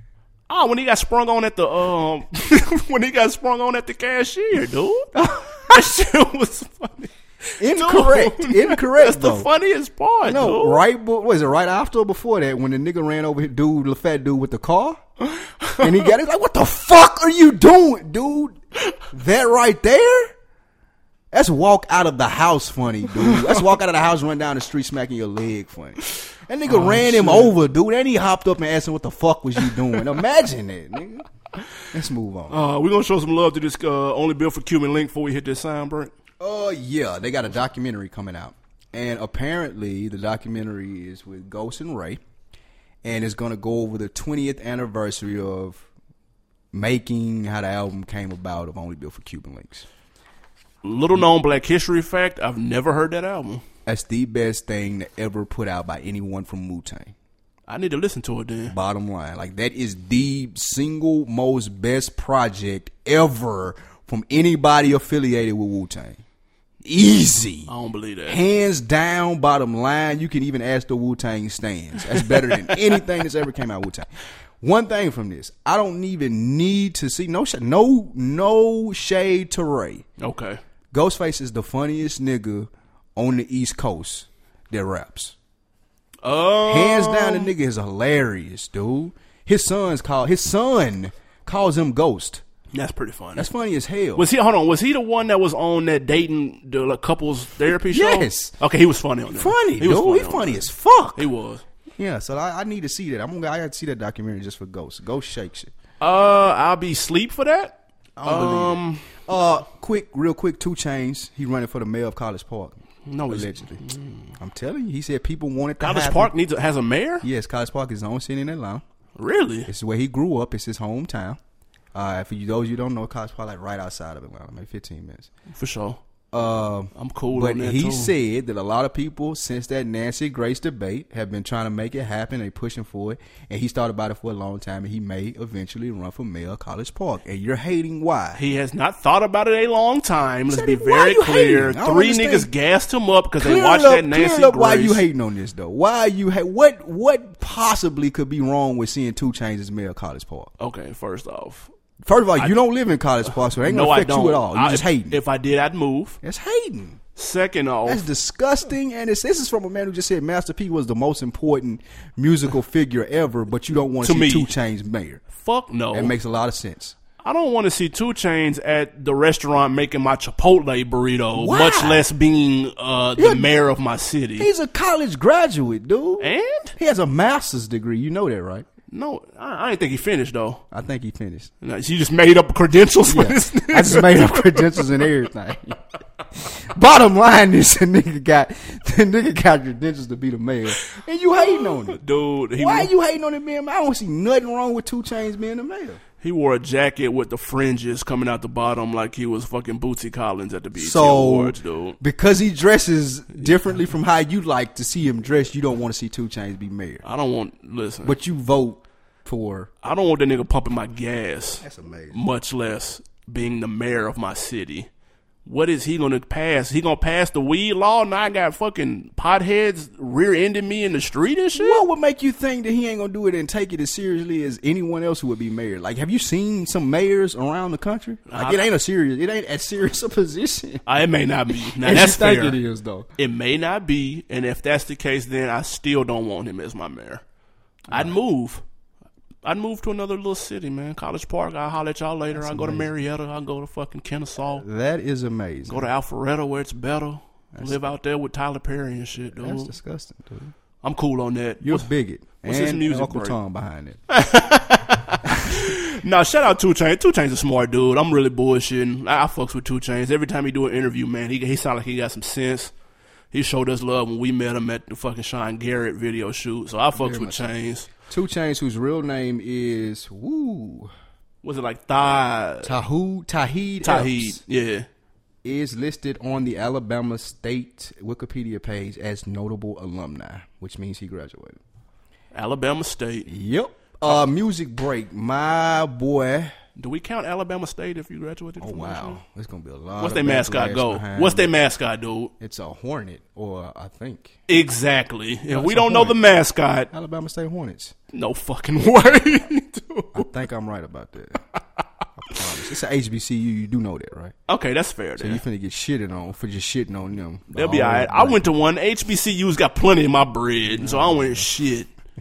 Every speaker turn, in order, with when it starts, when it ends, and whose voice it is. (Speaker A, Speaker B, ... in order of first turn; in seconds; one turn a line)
Speaker A: 0.5-5.1
Speaker B: 5.1-5.9
Speaker A: 5.7-7.1
Speaker B: 7.6-9.5
Speaker A: 7.6-10.8
Speaker B: 10.2-15.0
Speaker A: 15.4-16.1
Speaker B: 15.8-18.6
Speaker B: 19.1-20.3
Speaker B: 21.3-31.2
Speaker A: 26.7-27.5
Speaker B: 31.9-32.6
Speaker A: 32.5-36.1
Speaker B: 36.4-42.2
Speaker B: 43.0-45.9
Speaker B: 46.7-49.9
Speaker A: 50.8-53.6
Speaker B: 53.9-57.1
Speaker A: 57.7-58.7
Speaker B: 58.7-66.2
Speaker B: 66.8-67.7
Speaker A: 67.7-68.4
Speaker B: 68.3-74.1
Speaker A: 72.1-73.0
Speaker B: 74.6-80.0
Speaker A: 80.2-80.6
Speaker B: 80.9-85.3
Speaker A: 86.2-87.5
Speaker B: 86.7-92.4
Speaker A: 92.7-93.5
Speaker B: 93.4-94.3
Speaker A: 94.2-101.6
Speaker B: 97.9-98.5
Speaker B: 99.3-101.3
Speaker B: 102.0-105.7
Speaker A: 106.0-109.1
Speaker B: 108.2-113.8
Speaker A: 113.1-114.3
Speaker B: 114.4-116.3
Speaker A: 115.8-117.2
Speaker B: 117.2-118.8
Speaker A: 119.2-119.7
Speaker B: 119.7-121.4
Speaker B: 121.9-125.3
Speaker A: 125.5-126.0
Speaker B: 126.3-138.4
Speaker A: 127.0-128.1
Speaker A: 138.3-145.0
Speaker B: 140.5-142.5
Speaker B: 143.4-150.5
Speaker A: 150.6-151.7
Speaker B: 152.0-155.2
Speaker A: 153.6-156.2
Speaker B: 156.2-157.0
Speaker A: 157.2-158.1
Speaker B: 157.9-165.2
Speaker A: 164.0-164.5
Speaker A: 165.3-166.2
Speaker B: 165.9-166.9
Speaker A: 167.2-174.5
Speaker B: 171.4-172.0
Speaker B: 173.2-173.5
Speaker B: 174.4-178.7
Speaker A: 176.2-176.8
Speaker A: 178.9-180.6
Speaker B: 180.7-181.5
Speaker A: 181.6-185.1
Speaker B: 183.1-185.8
Speaker B: 186.4-192.0
Speaker A: 191.3-192.9
Speaker B: 192.6-196.0
Speaker A: 196.2-202.0
Speaker B: 200.8-207.0
Speaker A: 207.0-208.2
Speaker B: 208.0-209.7
Speaker A: 209.8-214.9
Speaker B: 211.6-212.2
Speaker A: 215.4-221.8
Speaker B: 221.6-230.8
Speaker A: 228.3-228.7
Speaker A: 230.9-232.6
Speaker B: 231.6-233.1
Speaker A: 233.2-237.2
Speaker A: 237.9-238.6
Speaker A: 239.4-244.7
Speaker B: 242.3-242.9
Speaker B: 244.6-245.9
Speaker A: 245.7-249.7
Speaker B: 247.5-247.9
Speaker B: 249.3-250.5
Speaker A: 250.8-251.9
Speaker B: 251.6-254.0
Speaker A: 252.4-253.4
Speaker A: 254.1-262.7
Speaker A: 263.3-267.9
Speaker B: 267.0-267.5
Speaker B: 268.1-270.9
Speaker A: 271.4-272.8
Speaker B: 272.6-274.4
Speaker A: 273.8-274.9
Speaker B: 275.4-281.6
Speaker A: 282.3-283.3
Speaker B: 283.3-286.5
Speaker A: 286.8-289.2
Speaker B: 288.6-291.5
Speaker A: 290.0-292.3
Speaker B: 292.4-294.4
Speaker A: 294.5-296.9
Speaker B: 295.5-296.2
Speaker B: 296.9-297.9
Speaker A: 298.1-300.3
Speaker B: 300.1-301.4
Speaker B: 302.2-304.3
Speaker A: 304.5-305.4
Speaker B: 305.2-308.5
Speaker A: 307.5-311.9
Speaker B: 310.8-311.4